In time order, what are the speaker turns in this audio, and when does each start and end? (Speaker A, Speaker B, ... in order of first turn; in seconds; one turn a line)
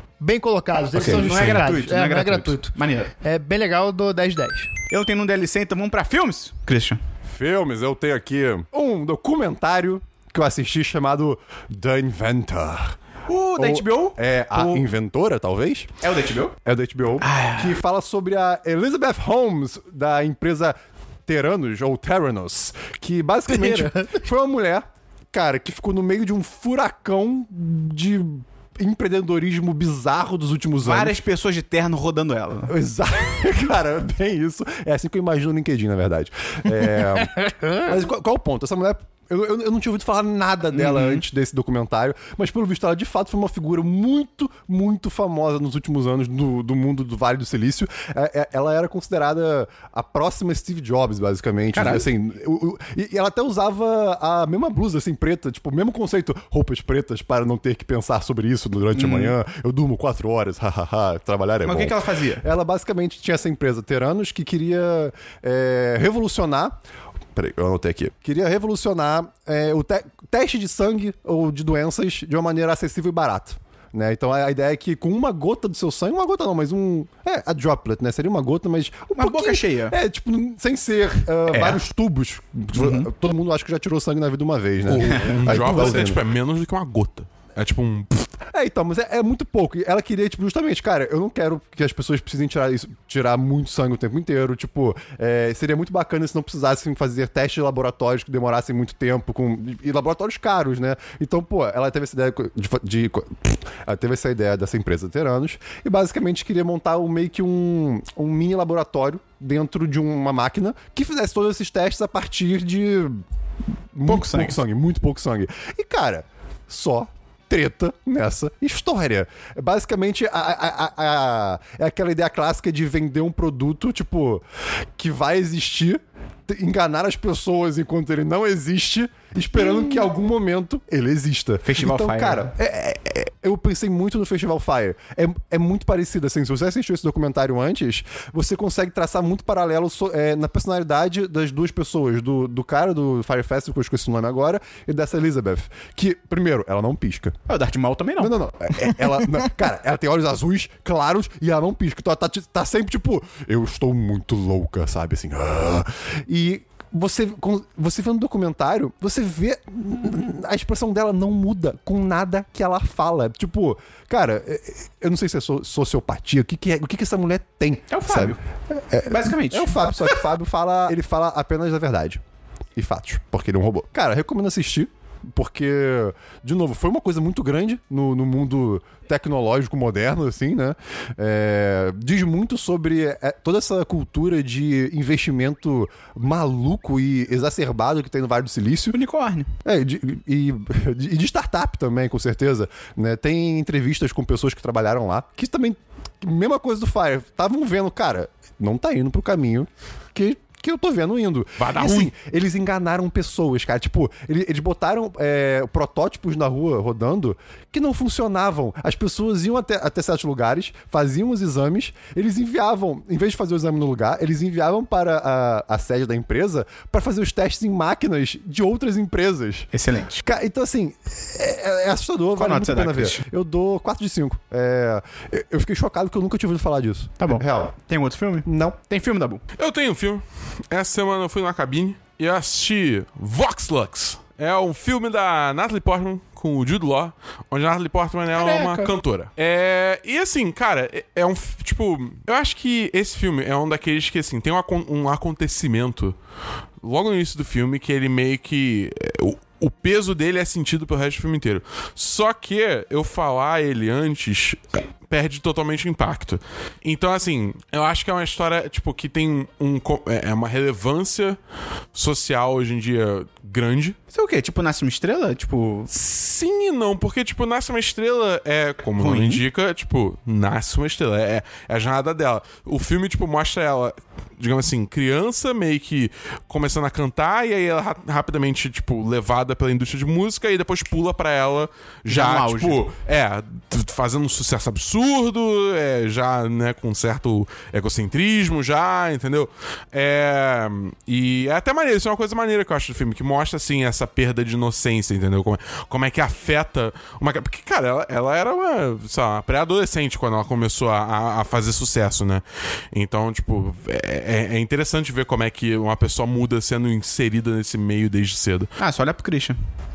Speaker A: 0.2-4.7
Speaker B: 0.9-1.3
Speaker C: 0.9-3.1
Speaker C: 4.9-7.0
Speaker B: 7.3-12.9
Speaker C: 13.3-14.8
Speaker B: 13.6-15.9
Speaker C: 16.0-16.6
Speaker B: 16.6-31.1
Speaker C: 17.2-17.8
Speaker A: 23.5-24.2
Speaker C: 30.8-32.7
Speaker B: 32.7-66.8
Speaker C: 40.7-41.2
Speaker C: 51.7-52.1
Speaker C: 58.9-59.3
Speaker C: 61.6-62.4
Speaker B: 67.3-86.2
Speaker C: 79.2-80.0
Speaker C: 81.5-81.8
Speaker C: 82.7-83.1
Speaker D: 84.9-88.3
Speaker C: 85.0-86.1
Speaker B: 88.5-113.2
Speaker B: 113.9-124.4
Speaker C: 114.1-114.6
Speaker B: 125.0-147.3
Speaker C: 129.7-130.0
Speaker C: 131.6-132.5
Speaker C: 147.5-148.3
Speaker B: 148.2-172.2
Speaker C: 167.9-168.4
Speaker C: 169.1-170.2
Speaker B: 172.8-189.0
Speaker C: 188.9-189.5
Speaker B: 189.6-219.7
Speaker D: 201.6-202.1
Speaker C: 219.7-220.2
Speaker B: 220.2-227.7
Speaker C: 222.3-223.2
Speaker C: 227.2-229.4
Speaker B: 228.4-228.8
Speaker D: 229.6-246.2
Speaker C: 238.3-238.9
Speaker D: 246.8-261.4
Speaker D: 261.9-264.0
Speaker C: 264.1-265.9
Speaker D: 265.9-308.7
Speaker C: 269.0-269.4
Speaker C: 282.1-282.8
Speaker C: 308.8-309.6